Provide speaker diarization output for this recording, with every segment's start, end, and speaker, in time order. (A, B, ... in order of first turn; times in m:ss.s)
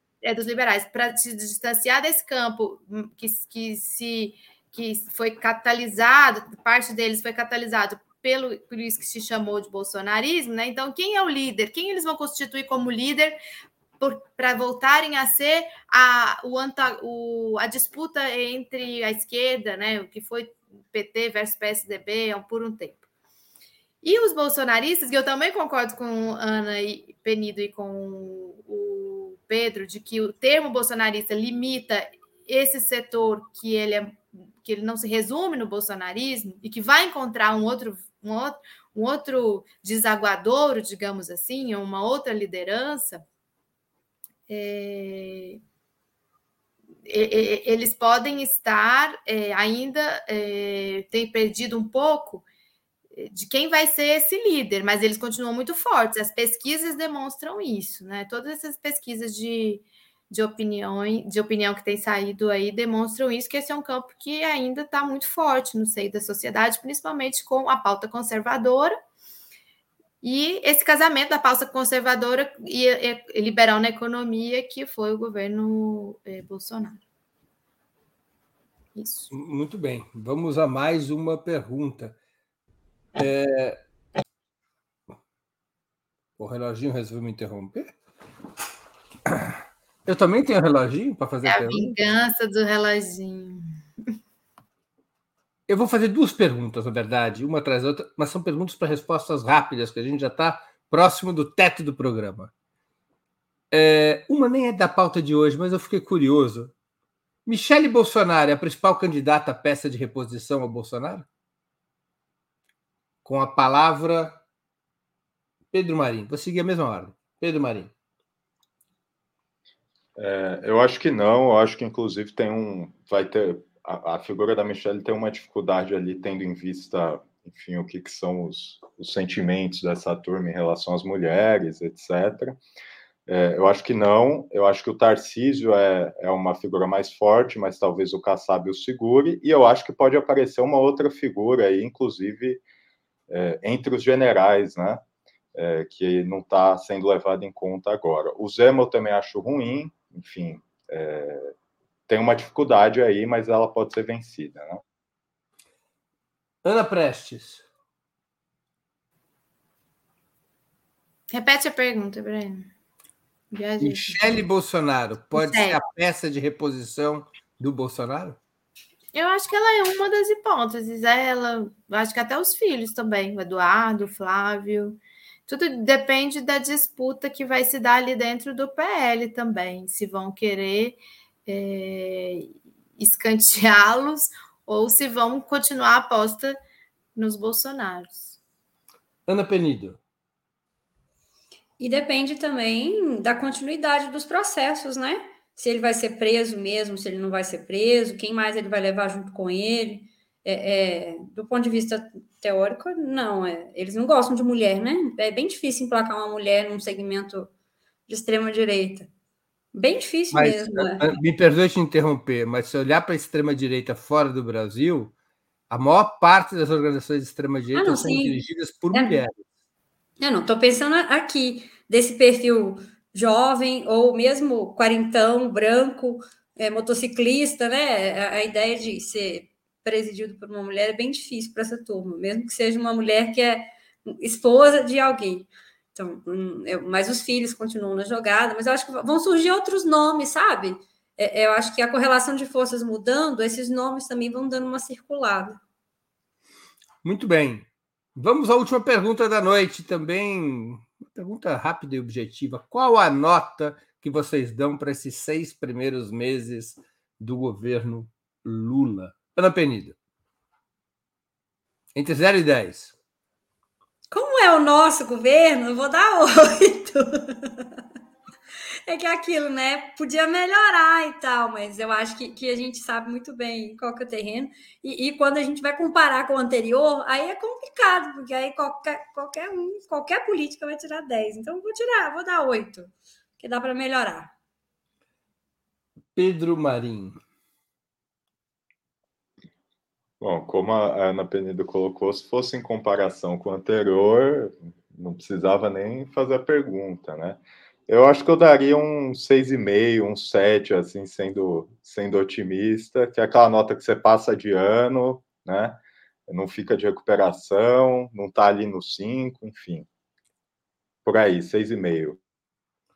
0:00.2-0:13.4 A
0:14.0-0:23.0 A
0:24.0-0:43.2 A
0:44.5-0:45.6 A
0:47.0-0:52.4 A
0:53.1-1:09.0 A
1:10.2-1:17.0 A
1:19.0-1:19.3 A
1:19.3-1:22.2 B
1:23.2-1:23.8 B
1:26.4-1:27.9 B
1:29.3-1:29.5 B
1:30.0-1:31.9 B
1:31.4-1:33.6 A
1:35.7-1:42.5 B
1:43.7-1:46.7 B
1:47.4-1:51.3 B
1:53.2-1:54.4 B
1:55.7-1:57.9 B
2:00.2-2:12.6 C
2:13.3-2:22.6 C
2:23.3-2:25.0 C
2:25.5-2:31.5 C
2:32.1-2:34.8 C
2:36.6-2:37.6 B
2:41.3-2:42.7 A
2:43.5-2:44.2 A
2:43.8-2:48.4 B
2:45.3-2:45.8 A
2:49.1-3:06.6 A
3:07.1-3:08.3 A
3:09.3-3:10.0 B
3:11.8-3:27.5 D
3:28.1-3:29.1 D
3:29.7-3:31.1 D
3:30.3-3:35.1 B
3:35.7-3:39.4 B
3:37.7-3:38.4 D
3:38.9-3:39.2 D
3:40.2-4:05.6 D
4:07.0-4:20.0 B
4:21.9-4:22.9 B
4:24.1-4:27.8 D
4:28.9-4:44.3 D
4:46.1-4:47.2 B
4:50.2-5:09.9 C
5:11.0-5:12.2 C